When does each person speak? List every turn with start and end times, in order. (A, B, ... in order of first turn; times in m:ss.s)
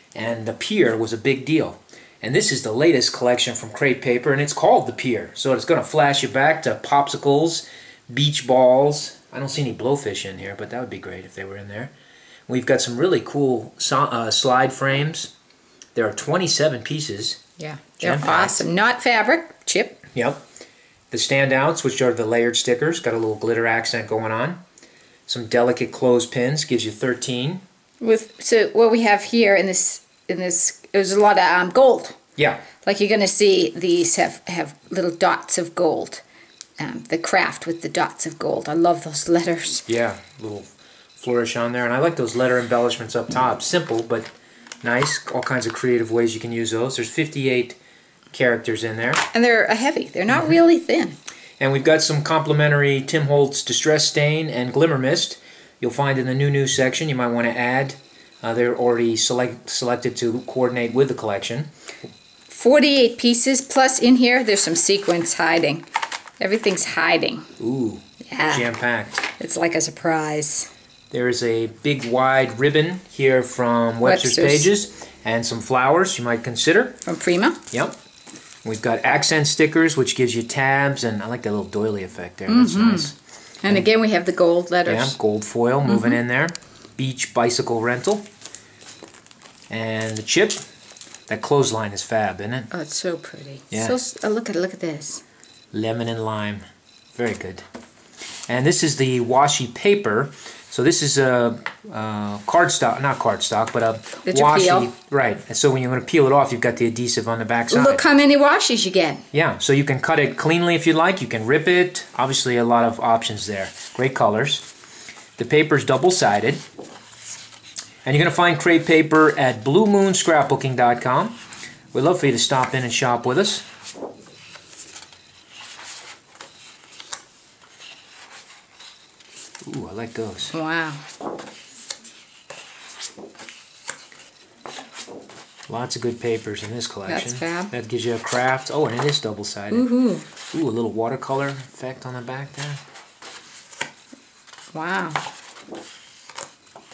0:00.1-0:11.9 A
0:12.5-0:15.3 A
0:16.0-0:17.4 A
0:17.6-0:20.0 B
0:18.0-0:18.6 A
0:20.1-0:20.4 A
0:21.1-0:24.6 A
0:25.3-0:27.6 A
0:28.0-0:32.2 B
0:32.4-0:32.7 A
0:32.8-0:36.2 B
0:36.8-0:39.8 B
0:39.9-0:44.3 A
0:44.8-0:47.8 A
0:48.3-0:49.2 A
0:49.3-0:51.2 B
0:51.6-1:01.7 A
1:02.5-1:05.8 B
1:06.4-1:07.5 B
1:07.6-1:09.2 A
1:08.3-1:08.7 B
1:09.2-1:10.7 B
1:11.1-1:17.0 A
1:14.0-1:14.7 B
1:17.0-1:17.6 B
1:18.6-1:23.2 A
1:22.5-1:23.1 B
1:23.6-1:25.2 B
1:24.8-1:28.2 A
1:25.9-1:26.2 B
1:29.7-1:30.6 A
1:31.3-1:32.7 A
1:32.7-1:35.2 B
1:33.7-1:34.0 A
1:35.7-1:37.6 A
1:38.5-1:48.0 A
1:44.2-1:44.9 B
1:47.7-1:49.2 B
1:49.3-1:54.7 A
1:55.4-1:56.6 A
1:58.0-2:01.4 A
2:01.9-2:03.6 A
2:09.6-2:10.5 A
2:10.5-2:11.0 B
2:15.7-2:19.9 A
2:17.1-2:17.7 B
2:19.7-2:20.3 B
2:20.5-2:22.8 A
2:24.7-2:25.2 B